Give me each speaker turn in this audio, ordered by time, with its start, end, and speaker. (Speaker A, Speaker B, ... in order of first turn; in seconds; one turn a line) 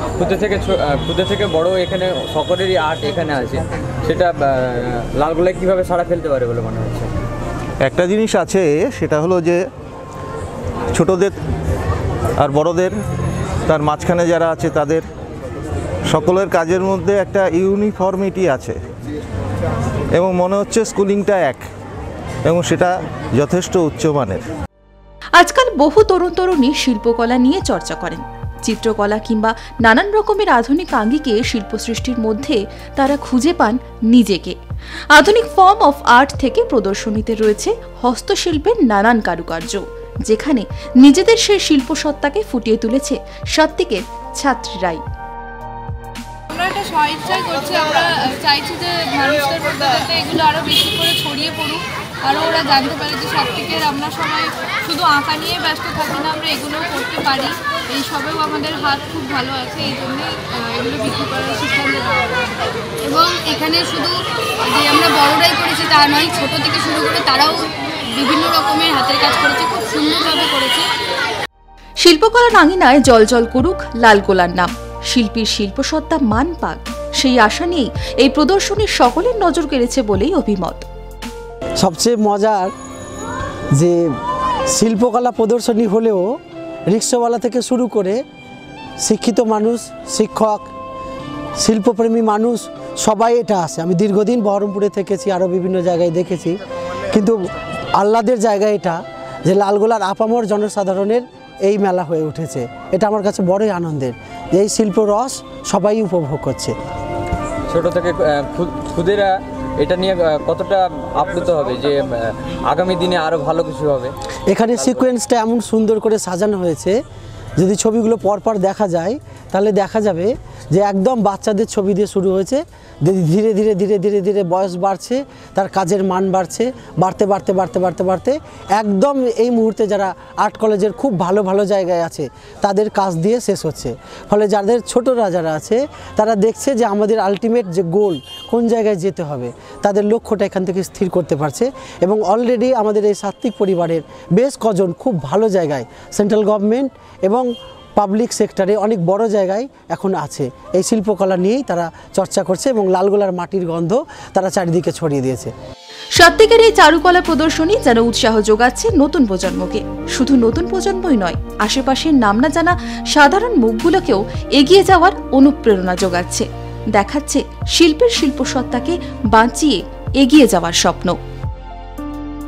Speaker A: 0.2-7.1
Speaker B: 7.8-9.6
Speaker B: 10.9-11.4
Speaker B: 12.4-12.9
Speaker B: 13.7-15.0
Speaker B: 16.1-18.8
Speaker B: 20.1-21.6
Speaker B: 22.4-24.4
Speaker C: 25.4-34.6
Speaker C: 35.1-45.0
Speaker D: 46.5-62.4
Speaker D: 63.0-70.9
Speaker C: 72.0-80.8
Speaker E: 81.8-82.7
Speaker E: 84.7-86.2
Speaker E: 86.9-88.2
Speaker E: 89.0-90.7
Speaker E: 91.6-96.6
Speaker E: 97.1-97.4
Speaker E: 98.0-106.7
Speaker A: 107.7-114.1
Speaker E: 114.5-117.0
Speaker A: 114.8-115.1
Speaker E: 117.6-155.5
Speaker C: 156.2-171.2